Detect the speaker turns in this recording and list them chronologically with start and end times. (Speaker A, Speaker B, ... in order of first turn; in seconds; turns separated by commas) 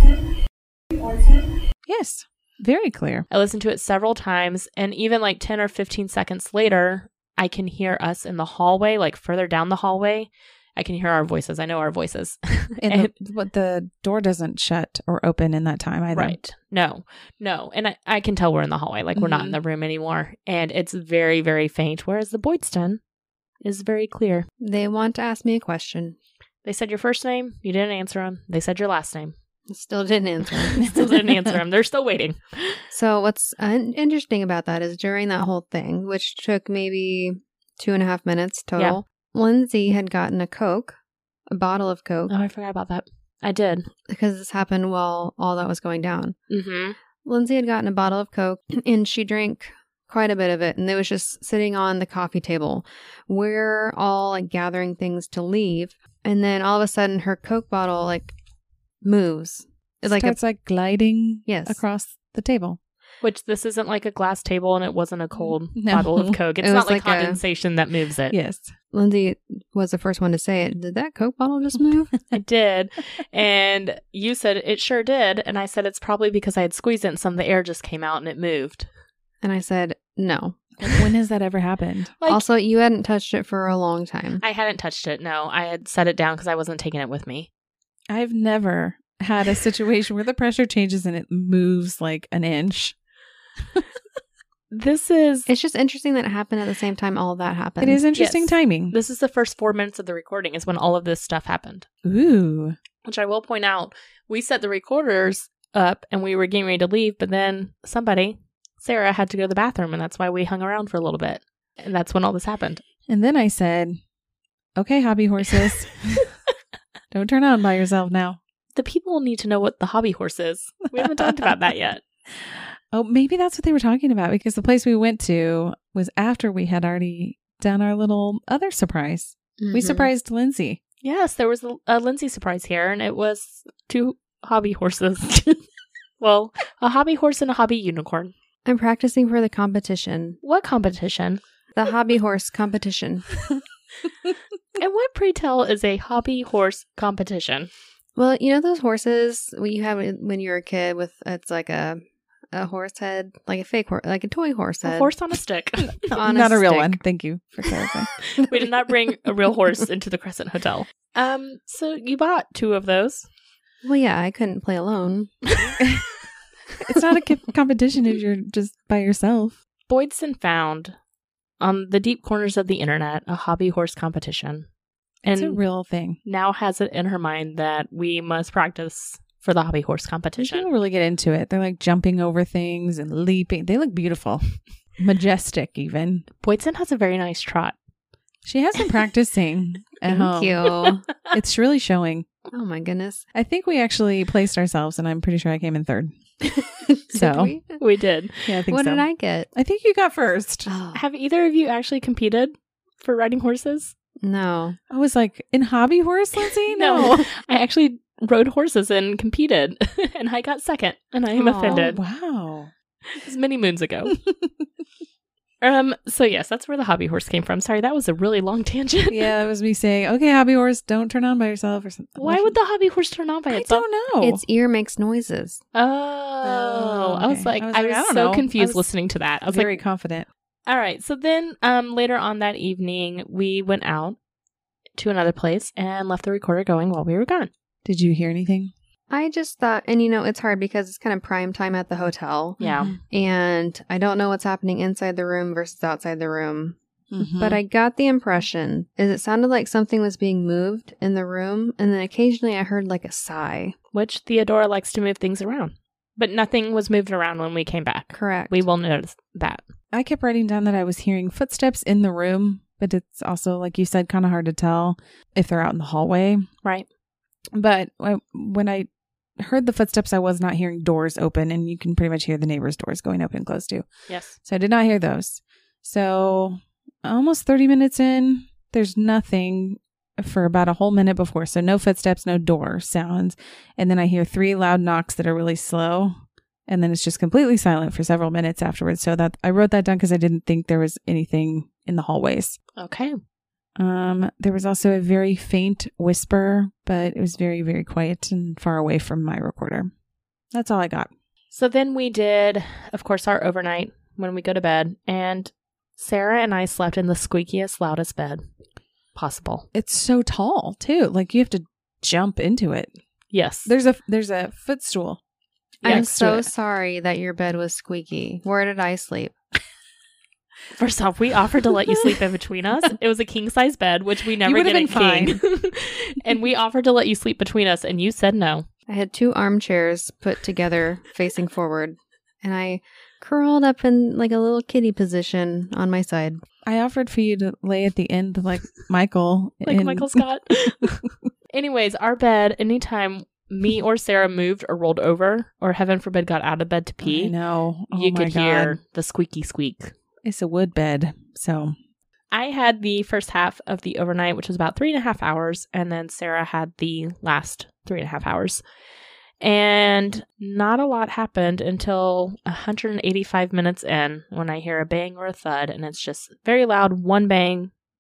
Speaker A: 1.9-3.3, Speaker B: 3.3-13.1, Speaker A: 12.8-16.4, Speaker B: 16.1-23.0, Speaker A: 19.2-19.6, Speaker B: 23.6-24.5, Speaker C: 24.6-26.2, Speaker B: 26.6-29.4, Speaker C: 29.7-31.0, Speaker B: 30.6-32.8, Speaker A: 30.8-31.1, Speaker C: 32.9-41.0, Speaker C: 41.5-42.3, Speaker B: 42.3-43.9, Speaker C: 44.1-46.4, Speaker B: 46.5-47.0, Speaker C: 47.2-58.4, Speaker C: 59.0-60.4, Speaker A: 60.1-62.8, Speaker C: 61.5-61.8, Speaker B: 63.2-68.4, Speaker A: 65.8-66.4, Speaker C: 66.6-67.4, Speaker A: 68.3-68.7, Speaker C: 68.9-72.1, Speaker B: 72.3-78.9, Speaker C: 79.4-80.6, Speaker A: 80.8-82.2, Speaker C: 82.3-84.4, Speaker B: 84.4-87.5, Speaker A: 88.1-93.0, Speaker B: 94.7-95.5, Speaker C: 95.5-98.0, Speaker A: 97.8-99.0, Speaker B: 98.2-101.9, Speaker A: 102.0-102.8, Speaker B: 103.0-112.8, Speaker A: 113.1-114.0, Speaker A: 114.8-116.2, Speaker A: 117.1-118.4, Speaker B: 118.8-122.0, Speaker A: 121.0-121.5, Speaker A: 122.4-130.8, Speaker C: 129.6-130.1, Speaker B: 131.0-135.6, Speaker B: 136.2-138.3, Speaker C: 138.7-140.4, Speaker B: 140.4-141.4, Speaker C: 141.8-143.3, Speaker B: 144.8-147.7, Speaker C: 148.2-152.0, Speaker C: 152.5-155.1, Speaker B: 154.8-156.2, Speaker A: 156.0-158.6, Speaker C: 156.1-157.0, Speaker B: 158.2-163.3, Speaker C: 163.8-165.3, Speaker A: 165.8-166.0, Speaker A: 166.8-169.6, Speaker B: 169.9-170.9, Speaker B: 171.6-174.7, Speaker B: 175.2-175.6, Speaker A: 175.2-176.2, Speaker B: 176.2-180.7, Speaker A: 180.4-184.4, Speaker A: 185.0-186.3, Speaker B: 186.4-187.8, Speaker A: 188.4-192.3, Speaker C: 190.1-191.1, Speaker C: 192.5-193.2, Speaker A: 193.3-196.2, Speaker C: 196.9-197.8, Speaker A: 197.1-197.6, Speaker B: 197.8-198.5, Speaker A: 198.5-200.7, Speaker C: 198.7-199.5, Speaker C: 200.7-201.0, Speaker B: 200.9-203.9, Speaker C: 204.2-204.8, Speaker A: 204.9-207.3, Speaker B: 206.7-212.0, Speaker C: 211.3-211.9, Speaker A: 211.6-212.7, Speaker B: 213.1-214.2, Speaker A: 214.3-214.5, Speaker B: 215.6-219.3, Speaker A: 219.1-222.6, Speaker B: 222.2-223.8, Speaker A: 223.5-224.4, Speaker C: 224.2-225.6, Speaker B: 225.8-229.8, Speaker A: 226.4-228.9, Speaker A: 229.5-230.3, Speaker B: 230.7-234.2, Speaker B: 235.0-237.5, Speaker A: 237.8-238.7, Speaker C: 239.1-246.8, Speaker B: 242.6-242.9, Speaker A: 242.6-243.0, Speaker A: 247.1-247.6, Speaker C: 247.4-253.8, Speaker B: 253.9-259.6, Speaker C: 258.1-258.6, Speaker A: 259.9-266.5, Speaker A: 267.5-273.9, Speaker B: 274.1-274.4, Speaker A: 274.4-286.1, Speaker A: 286.7-292.6, Speaker B: 292.8-293.1, Speaker A: 293.8-299.9, Speaker A: 300.5-301.1, Speaker B: 301.5-308.4, Speaker B: 309.1-309.7, Speaker A: 309.7-312.9, Speaker B: 313.3-313.7, Speaker A: 313.7-315.2, Speaker A: 315.8-316.5, Speaker B: 315.8-316.1, Speaker C: 315.8-319.3, Speaker B: 320.8-328.7, Speaker A: 324.4-325.4, Speaker C: 328.9-336.4, Speaker A: 336.7-340.2, Speaker B: 339.6-347.3, Speaker A: 347.0-348.8, Speaker B: 347.9-349.9, Speaker A: 350.2-351.8, Speaker B: 352.3-358.6, Speaker B: 359.4-367.7